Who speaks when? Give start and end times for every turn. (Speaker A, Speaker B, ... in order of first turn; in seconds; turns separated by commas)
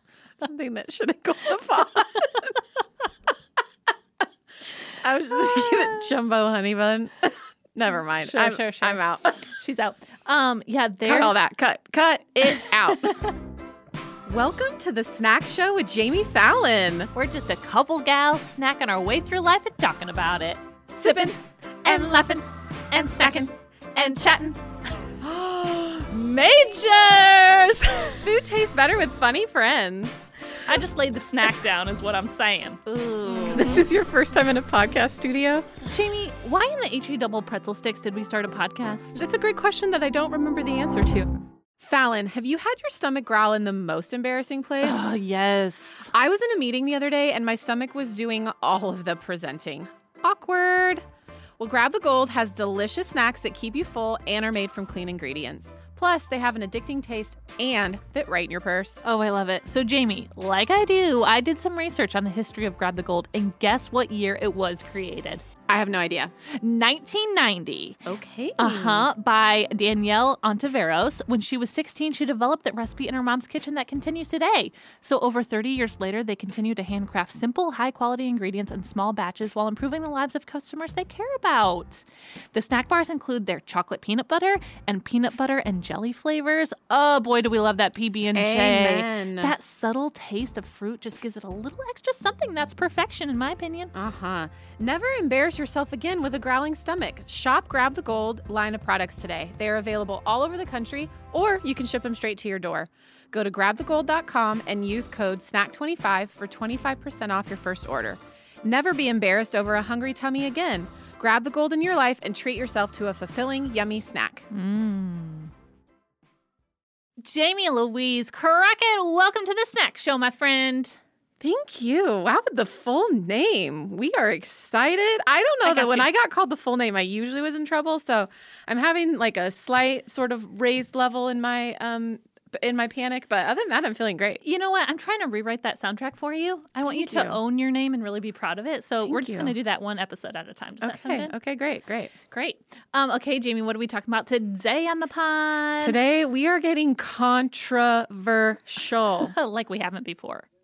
Speaker A: 0.4-2.6, Speaker A: 4.9-9.5, Speaker B: 8.2-11.4, Speaker A: 11.0-13.2, Speaker B: 12.5-13.4, Speaker A: 14.3-17.1, Speaker B: 17.1-28.3, Speaker A: 21.0-24.5, Speaker A: 28.2-30.2, Speaker B: 30.6-33.9, Speaker A: 33.2-35.7, Speaker B: 35.9-39.2, Speaker A: 39.2-41.3, Speaker A: 41.8-45.0, Speaker B: 44.8-46.1, Speaker A: 46.1-51.0, Speaker A: 51.6-59.0, Speaker B: 59.0-65.5, Speaker A: 65.7-66.3, Speaker B: 66.5-68.0, Speaker A: 68.0-69.1, Speaker B: 68.6-93.9, Speaker A: 88.3-89.5, Speaker A: 93.9-114.5, Speaker B: 114.5-115.5, Speaker B: 117.2-121.0, Speaker A: 121.4-134.4, Speaker B: 125.6-126.1, Speaker B: 134.4-141.3, Speaker A: 136.8-137.4, Speaker A: 139.0-139.6, Speaker A: 140.8-142.1, Speaker B: 142.3-146.0, Speaker A: 145.8-149.3, Speaker B: 149.2-150.5